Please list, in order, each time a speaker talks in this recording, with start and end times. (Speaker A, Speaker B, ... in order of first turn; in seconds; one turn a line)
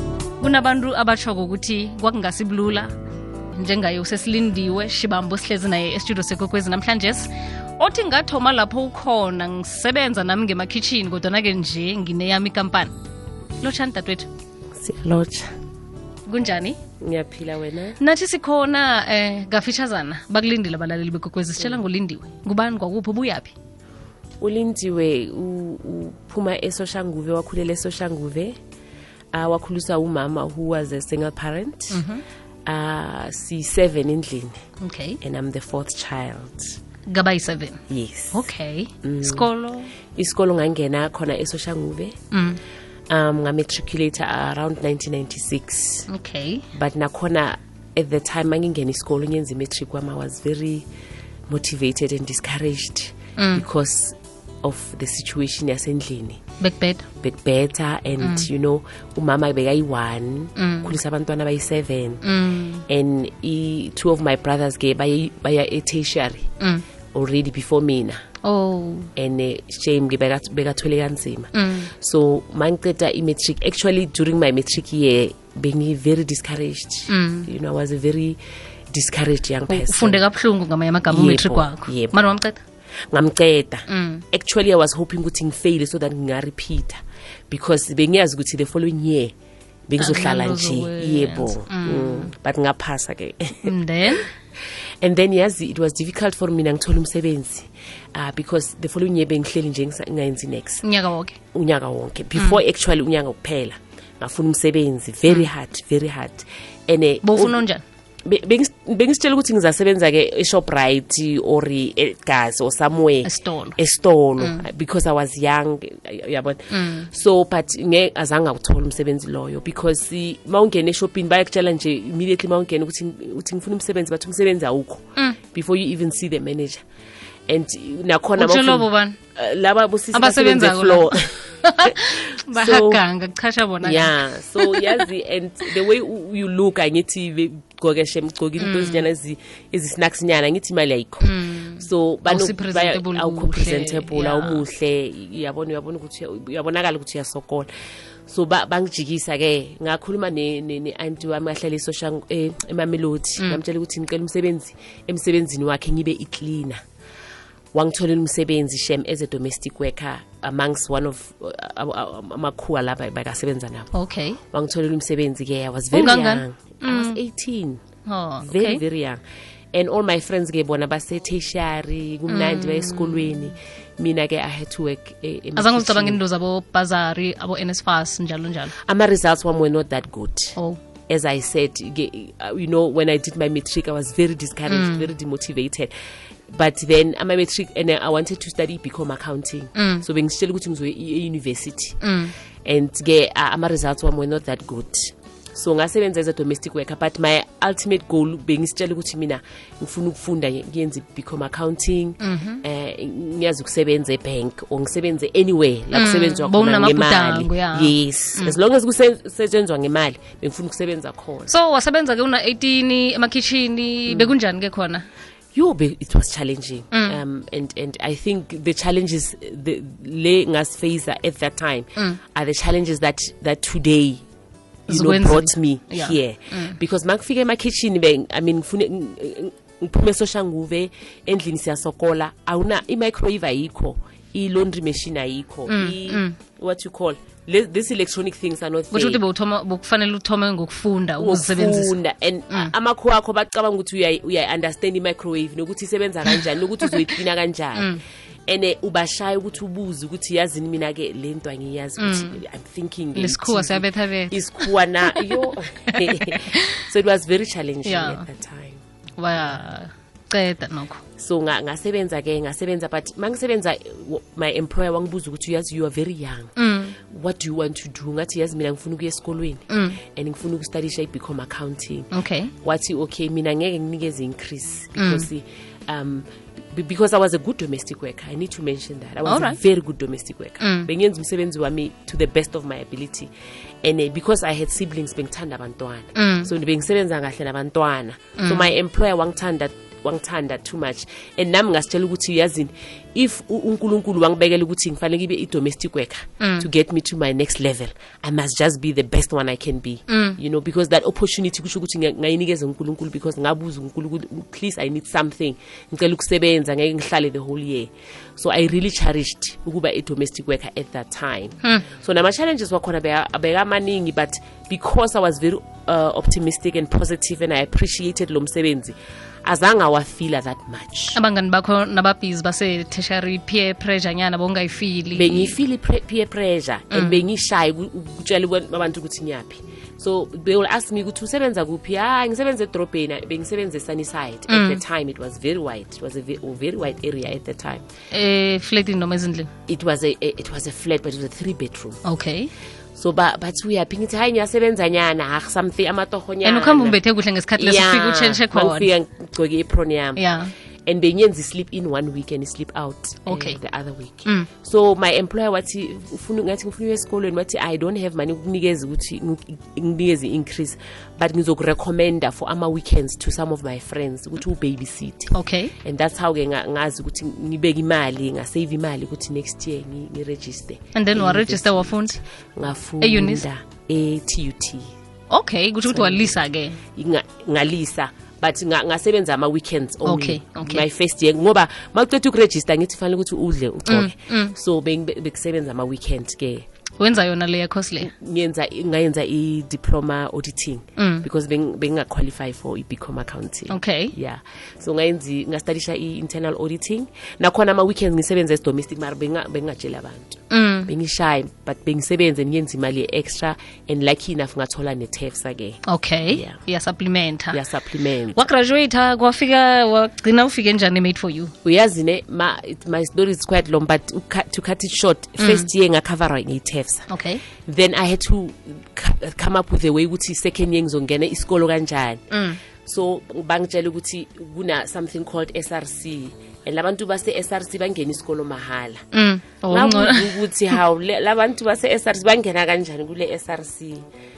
Speaker A: 0.4-2.9
Speaker A: 3.5-12.9
Speaker A: 13.6-14.3
Speaker B: 14.8-15.5
Speaker A: 16.3-16.8
Speaker B: 17.0-18.0
Speaker A: 18.0-23.5
Speaker B: 24.4-28.5
Speaker B: 29.3-32.0
Speaker A: 31.9-32.2
Speaker B: 32.6-34.5
Speaker A: 34.8-35.2
Speaker B: 35.2-36.8
Speaker A: 37.1-37.8
Speaker B: 37.9-38.5
Speaker A: 38.3-39.9
Speaker B: 39.0-39.5
Speaker B: 40.1-42.1
Speaker A: 42.3-42.6
Speaker B: 43.1-46.1
Speaker A: 46.1-46.6
Speaker B: 46.7-50.9
Speaker B: 51.5-56.4
Speaker A: 53.4-53.6
Speaker A: 56.6-57.0
Speaker B: 57.2-62.2
Speaker A: 58.2-58.5
Speaker A: 60.6-61.0
Speaker A: 62.2-62.8
Speaker B: 62.9-66.5
Speaker A: 66.6-66.8
Speaker B: 67.1-68.2
Speaker A: 68.4-69.1
Speaker B: 69.2-78.4
Speaker A: 71.5-71.9
Speaker A: 77.1-77.5
Speaker B: 78.9-80.2
Speaker A: 79.7-82.6
Speaker B: 81.1-82.2
Speaker B: 83.1-89.3
Speaker A: 83.9-84.2
Speaker B: 89.9-94.3
Speaker A: 90.0-92.3
Speaker A: 93.6-94.3
Speaker B: 95.0-100.8
Speaker A: 100.8-101.4
Speaker B: 101.5-107.6
Speaker A: 107.2-107.8
Speaker B: 108.2-126.8
Speaker A: 113.2-113.8
Speaker A: 114.4-114.6
Speaker A: 116.7-117.1
Speaker B: 127.5-133.0
Speaker A: 128.4-129.2
Speaker A: 130.1-135.0
Speaker B: 133.8-147.7
Speaker A: 138.6-139.0
Speaker A: 141.2-144.6
Speaker B: 148.3-156.8
Speaker B: 157.7-163.9
Speaker A: 163.9-164.4
Speaker B: 164.5-167.8
Speaker A: 165.9-167.2
Speaker A: 168.1-168.8
Speaker B: 168.4-169.2
Speaker B: 169.7-176.2
Speaker A: 172.3-173.3
Speaker A: 175.6-178.7
Speaker B: 178.8-180.6
Speaker B: 181.1-185.9
Speaker A: 184.7-185.1
Speaker B: 186.5-192.0
Speaker A: 189.8-190.0
Speaker A: 192.0-192.3
Speaker B: 192.6-211.5
Speaker A: 202.2-202.6
Speaker A: 205.9-208.6
Speaker A: 211.5-215.1
Speaker B: 214.1-214.3
Speaker B: 215.5-224.2
Speaker A: 216.9-217.2
Speaker B: 224.9-239.2
Speaker A: 224.9-226.8
Speaker A: 235.7-236.4
Speaker A: 238.9-241.9
Speaker B: 241.2-247.9
Speaker B: 248.5-258.8
Speaker A: 252.0-252.4
Speaker A: 253.1-256.8
Speaker A: 257.8-258.2
Speaker A: 259.2-261.0
Speaker B: 261.2-266.5
Speaker A: 266.6-266.9
Speaker B: 267.1-272.1
Speaker A: 269.7-270.0
Speaker A: 272.1-272.5
Speaker B: 272.6-283.3
Speaker A: 275.0-275.3
Speaker A: 279.2-279.6
Speaker A: 280.6-280.9
Speaker B: 283.8-321.2
Speaker A: 286.1-286.5
Speaker A: 288.4-288.7
Speaker A: 296.4-296.7
Speaker A: 300.1-300.4
Speaker A: 321.1-325.6
Speaker B: 325.1-337.8
Speaker A: 326.9-327.2
Speaker A: 334.5-334.8
Speaker A: 338.1-339.5
Speaker B: 339.7-342.0
Speaker A: 342.0-342.5
Speaker B: 342.9-347.0
Speaker A: 346.4-348.9
Speaker B: 347.6-350.2
Speaker A: 350.2-350.5
Speaker B: 350.9-374.9
Speaker A: 353.2-353.6
Speaker A: 365.3-365.7
Speaker A: 370.9-372.2
Speaker A: 373.0-373.4
Speaker A: 375.3-376.8
Speaker B: 375.9-376.4
Speaker B: 376.9-386.6
Speaker A: 380.0-380.8
Speaker A: 383.9-384.5
Speaker A: 387.0-388.1
Speaker B: 388.0-406.6
Speaker A: 391.0-391.2
Speaker A: 393.7-394.1
Speaker A: 400.5-400.9
Speaker A: 405.9-407.6
Speaker B: 407.5-408.4
Speaker A: 408.3-411.5
Speaker B: 411.6-417.1
Speaker A: 415.4-415.7
Speaker A: 417.1-417.4
Speaker B: 417.6-422.2
Speaker A: 422.3-422.6
Speaker B: 422.8-429.0
Speaker A: 429.1-430.4
Speaker B: 429.7-434.0